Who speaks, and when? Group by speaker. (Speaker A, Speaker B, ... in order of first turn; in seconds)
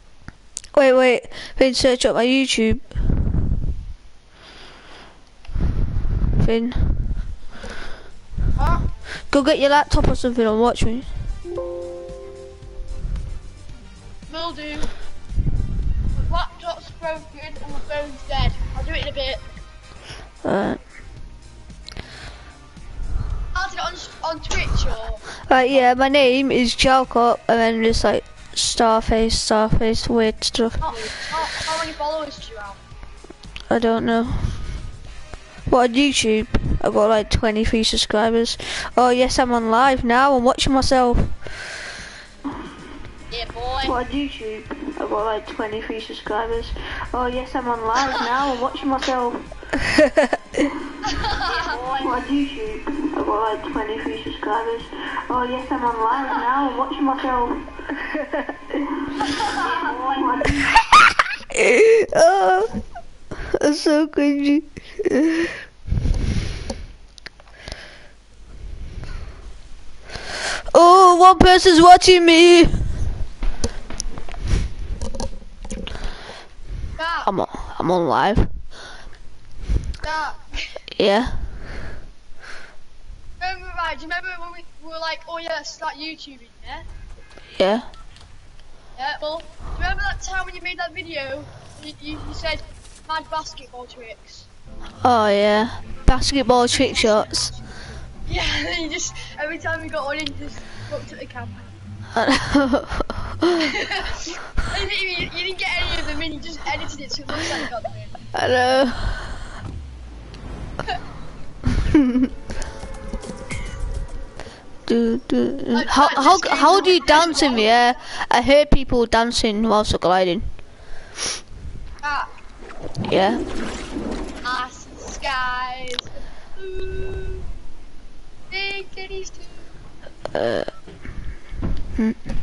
Speaker A: 0.7-3.0, 6.4-7.1, 9.3-11.1, 20.4-20.8, 25.4-30.9, 33.7-34.6, 35.7-41.4, 43.8-50.6, 51.9-58.3, 60.0-60.5, 61.5-62.8, 63.5-65.5, 70.7-72.9, 77.2-78.5, 81.0-81.5, 87.5-87.9, 95.0-97.5, 102.1-103.7, 108.3-109.4, 111.9-112.3, 114.9-120.5, 123.0-123.4, 130.3-130.7
Speaker B: 8.6-8.8, 14.3-14.9, 16.1-19.4, 23.5-25.3, 30.8-32.8, 43.3-44.0, 51.0-51.8, 59.2-59.9, 77.0-77.3, 80.0-80.8, 83.4-86.8, 88.9-94.5, 96.7-97.7, 98.2-101.7, 103.6-108.1, 115.7-117.9, 122.0-122.3, 124.4-127.4, 128.5-129.6